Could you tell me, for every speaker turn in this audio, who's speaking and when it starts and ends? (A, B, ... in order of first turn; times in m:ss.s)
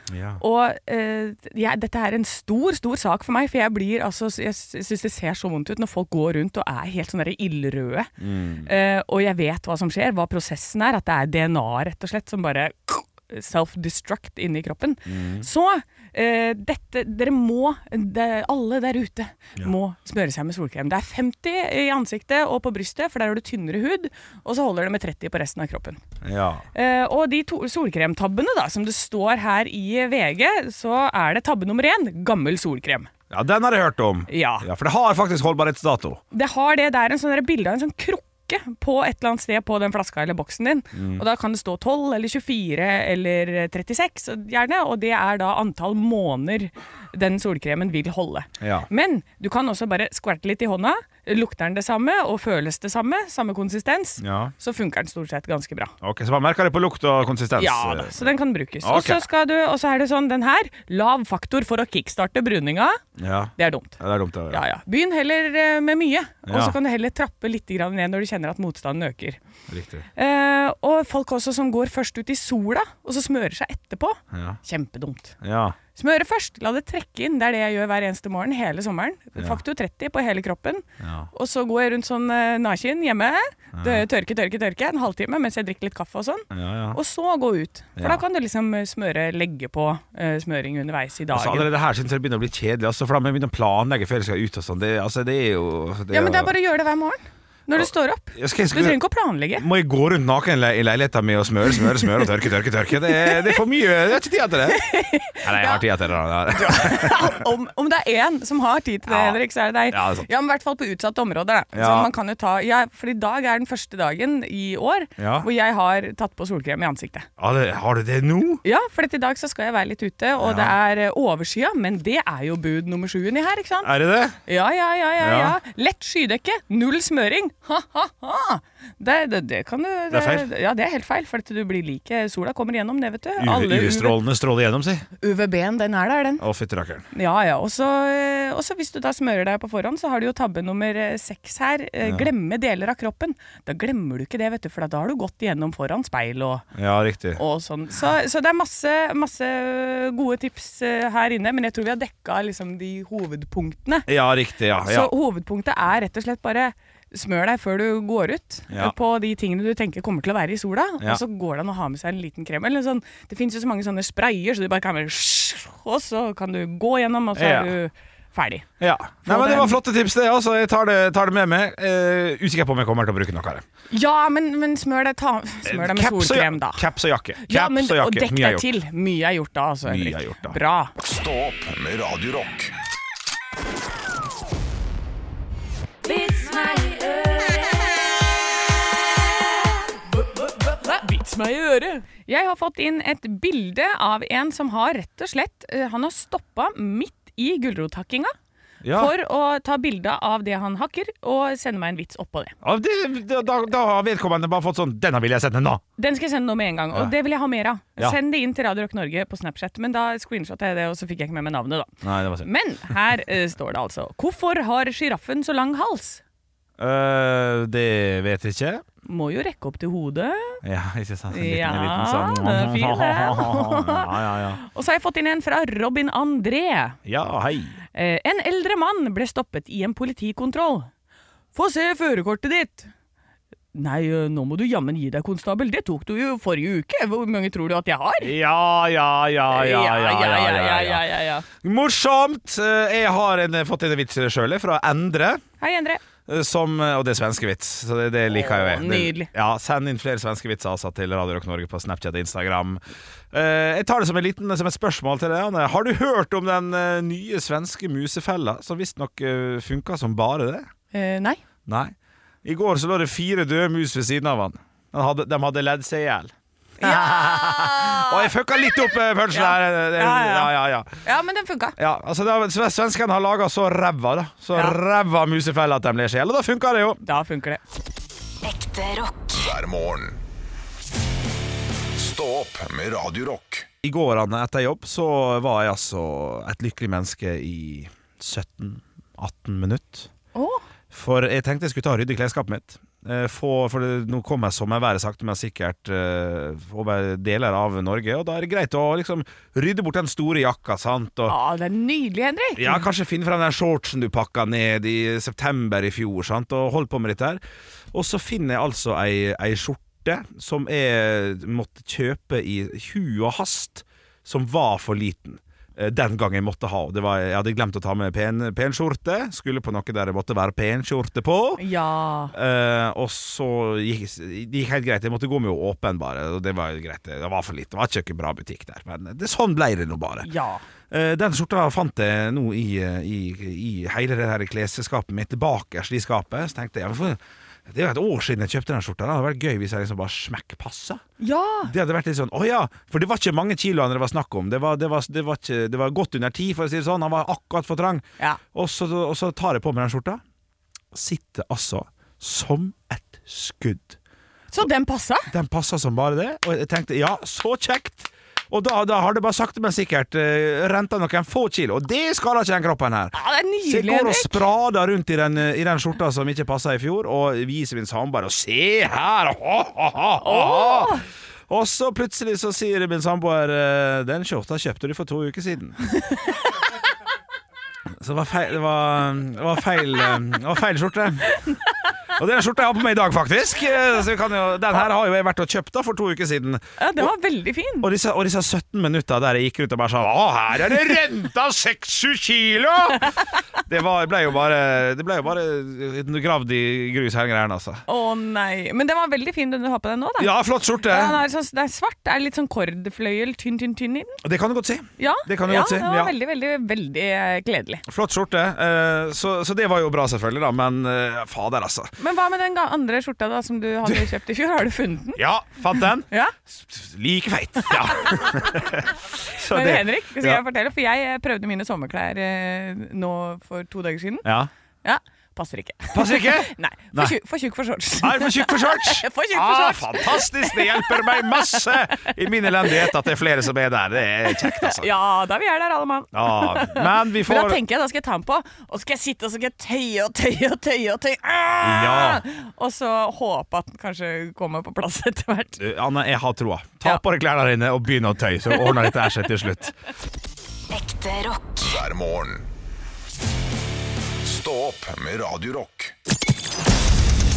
0:00.1-0:00.4 A
0:00.4-0:08.1 B
0:08.2-0:08.7 A
0:08.6-0:26.0 B
0:15.1-0:15.5 A
0:26.2-0:26.6 A
0:26.7-0:33.1 B
0:33.3-0:36.2 A
0:34.3-0:34.7 B
0:36.3-0:55.9 B
0:40.9-0:41.2 A
0:48.6-0:48.9 A
0:54.2-0:54.5 A
0:56.0-0:59.2 A
0:57.6-1:03.0 B
1:03.2-1:04.6 A
1:03.6-1:04.0 B
1:04.5-1:09.4 B
1:06.5-1:06.8 A
1:09.7-1:10.0 A
1:10.2-1:15.4 B
1:14.3-1:14.6 A
1:15.4-1:15.8 A
1:15.9-1:31.7 B
1:21.0-1:21.3 A
1:23.8-1:24.0 A
1:26.5-1:27.0 A
1:28.0-1:28.2 A
1:31.3-1:36.5 A
1:36.1-1:39.6 B
1:37.8-1:39.0 A
1:39.6-1:44.8 A
1:43.1-1:43.6 B
1:44.7-1:45.8 B
1:45.4-1:47.4 A
1:46.5-1:57.3 B
1:49.1-1:50.3 A
1:51.7-1:52.1 A
1:55.2-1:55.5 A
1:57.4-1:58.6 A
1:58.6-2:03.9 B
2:00.4-2:00.8 A
2:03.8-2:04.4 A
2:04.4-2:14.2 B
2:05.2-2:05.6 A
2:10.1-2:10.5 A
2:13.4-2:15.0 A
2:15.2-2:16.4 B
2:16.4-2:17.1 A
2:17.1-2:26.7 B
2:22.0-2:22.3 A
2:26.7-2:27.4 A
2:27.4-2:34.1 B
2:34.1-2:35.1 A
2:34.8-2:48.6 B
2:38.7-2:38.9 A
2:47.3-2:47.7 A
2:48.8-2:53.6 A
2:49.2-2:49.8 B
2:53.9-2:56.8 B
2:55.6-2:58.7 A
2:57.4-3:00.9 B
2:59.9-3:00.6 A
3:01.0-3:02.7 C
3:06.0-3:08.2 B
3:09.3-3:18.3 B
3:18.8-3:19.1 A
3:18.9-3:22.5 B
3:22.6-3:25.8 A
3:26.0-3:31.9 B
3:32.0-3:32.5 A
3:32.4-3:36.2 B
3:36.8-3:38.8 A
3:39.0-3:40.6 B
3:40.6-3:44.6 A
3:41.3-3:47.0 B
3:47.0-3:47.8 A
3:47.9-3:50.9 B
3:51.5-3:52.9 B
3:53.7-3:58.3 B
3:58.2-4:01.0 A
3:59.5-4:01.4 B
4:01.6-4:05.4 A
4:05.6-4:06.0 B
4:06.3-4:12.8 A
4:08.3-4:09.3 B
4:13.3-4:20.7 A
4:20.9-4:21.4 B
4:21.6-4:30.9 A
4:26.8-4:28.4 B
4:29.3-4:30.5 B
4:31.0-4:31.8 B
4:31.8-4:37.0 A
4:37.0-4:37.6 B
4:38.4-4:40.2 C
4:41.9-4:43.7 C
4:43.8-4:50.1 A
4:50.3-4:50.6 B
4:50.9-5:01.3 A
5:01.3-5:02.9 B
5:02.6-5:07.4 A
5:07.9-5:21.6 A
5:21.6-5:22.3 B
5:22.3-5:30.3 A
5:30.2-5:30.6 B
5:30.9-5:41.0 A
5:41.2-5:41.7 B
5:41.7-5:50.2 A
5:50.9-5:54.0 A
5:54.5-5:55.3 B
5:55.3-6:15.8 A
6:03.1-6:04.4 B
6:10.2-6:11.0 B
6:18.0-6:21.6 A
6:22.1-6:27.1 A
6:26.8-6:27.9 B
6:27.8-6:37.8 A
6:37.9-6:40.3 B
6:40.2-6:41.2 A
6:40.8-6:44.2 B
6:44.2-6:46.1 A
6:45.0-6:47.8 B
6:47.9-6:51.9 A
6:52.0-6:55.2 B
6:53.8-6:54.1 A
6:55.2-7:00.4 A
6:56.1-6:56.3 B
6:57.6-6:58.3 B
6:59.5-7:04.3 B
7:04.2-7:04.5 A
7:04.8-7:12.9 B
7:05.9-7:07.1 A
7:08.0-7:14.9 A
7:14.3-7:25.6 B
7:16.1-7:17.6 A
7:21.6-7:22.2 A
7:25.6-7:29.7 A
7:28.5-7:29.0 B
7:30.7-7:32.5 C
7:34.2-7:35.9 C